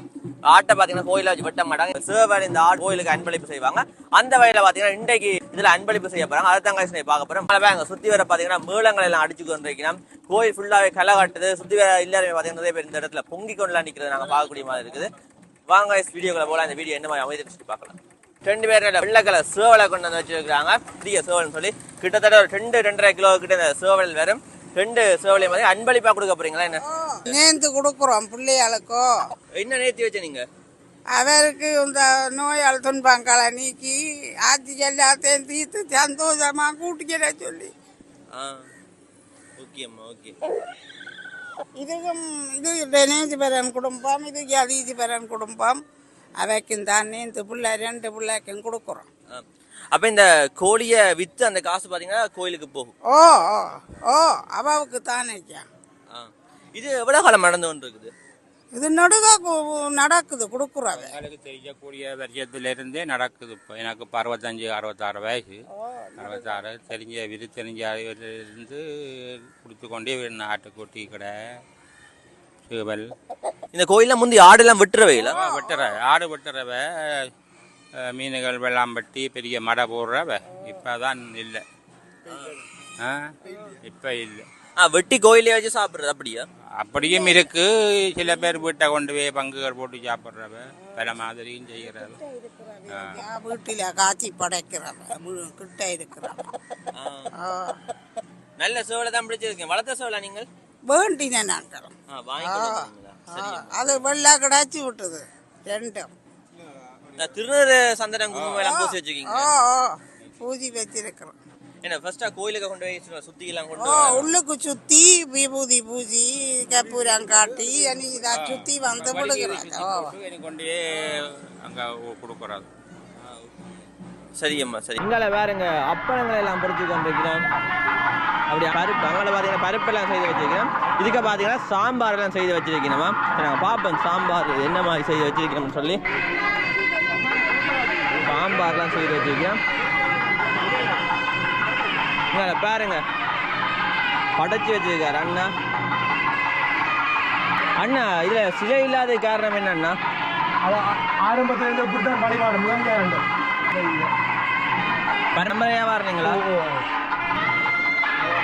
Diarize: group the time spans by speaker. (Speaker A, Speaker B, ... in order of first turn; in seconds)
Speaker A: 0.5-15.1, 15.7-27.3, 29.6-30.4, 38.3-38.6, 39.6-40.3, 49.3-52.9, 56.1-58.1, 73.7-75.4, 82.3-82.6, 84.8-86.4, 97.0-97.3, 98.6-100.5, 102.1-104.0, 107.1-109.5, 111.8-114.3, 124.4-127.5, 128.5-136.0, 138.2-139.6, 142.3-143.0, 144.4-145.5, 147.8-150.0, 155.3-156.4
Speaker B: 26.9-29.1, 31.1-37.7, 41.8-45.8, 46.4-49.1, 53.1-55.6, 58.7-61.2, 65.9-66.4, 75.3-75.9, 87.0-87.5, 88.2-88.6, 92.0-96.4, 97.3-97.8, 100.9-106.1, 108.6-111.3, 113.8-120.1
Speaker C: 61.0-65.6, 66.2-68.8, 69.6-71.3, 72.7-73.0, 75.2-77.3, 78.1-81.6, 83.0-84.5, 86.8-92.2, 92.9-93.2, 118.3-120.8, 121.6-122.7
Speaker D: 150.6-154.1, 156.2-156.8